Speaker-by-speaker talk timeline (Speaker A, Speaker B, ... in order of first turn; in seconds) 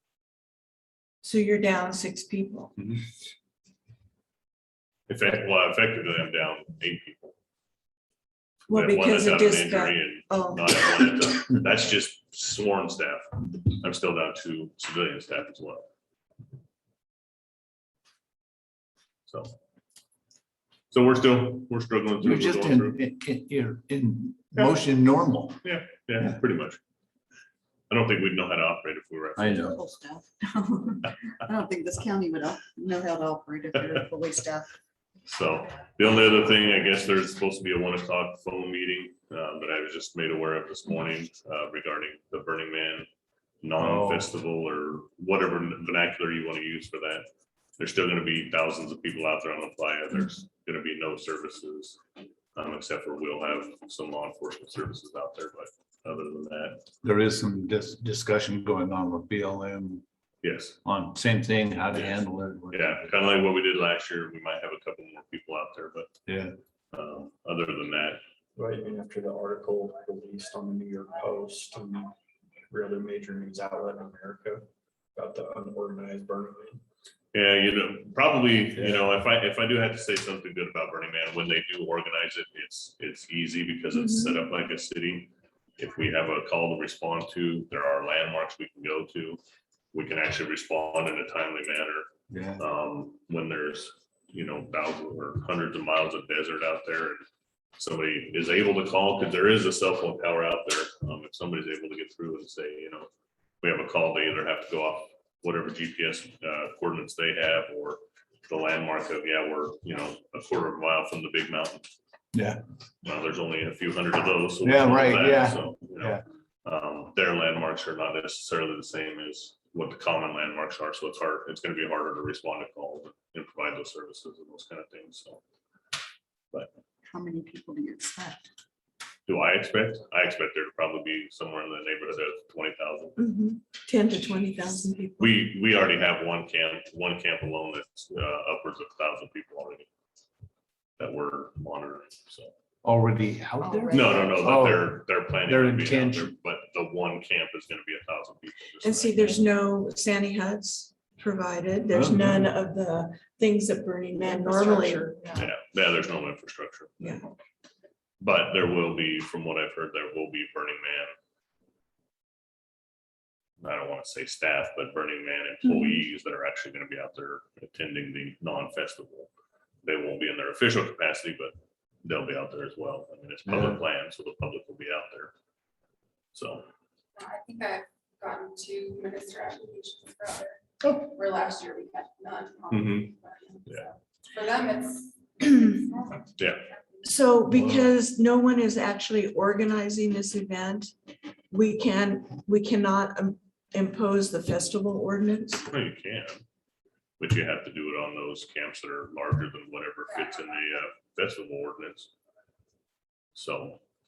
Speaker A: 1.2-2.7, 8.7-10.9, 83.9-84.4, 133.2-135.5, 148.8-155.2, 165.6-166.0, 187.0-190.9, 191.5-195.7
Speaker B: 2.8-3.0, 5.1-7.3, 8.7-15.9, 19.3-19.5, 20.9-23.0, 25.6-26.8, 27.9-29.7, 35.3-43.1, 43.6-47.2, 47.8-52.0, 52.5-56.8, 60.4-60.8, 61.9-66.1, 66.9-68.2, 77.3-89.4, 89.9-97.2, 97.8-103.1, 103.6-111.8, 113.0-125.4, 129.3-133.2, 135.2-139.9, 141.0-142.5, 143.9-149.4, 155.3-157.2, 158.2-161.1, 163.6-169.3, 169.8-175.3, 176.3-176.7, 182.7-183.1, 186.4-186.6, 195.7-196.4, 197.2-202.1, 203.3-203.8
Speaker C: 22.2-25.6, 29.4-29.8, 43.8-44.3, 57.0-60.0, 60.8-63.2, 66.3-66.5, 92.3-92.6, 112.3-112.6, 114.6-116.2, 142.8-146.3, 151.9-152.5, 173.4-173.8, 187.6-187.9
Speaker D: 29.6-34.7, 127.0-128.4, 143.6-144.4, 154.2-155.4
Speaker E: 68.5-72.1, 72.7-76.8
Speaker F: 177.2-186.4, 200.1-200.5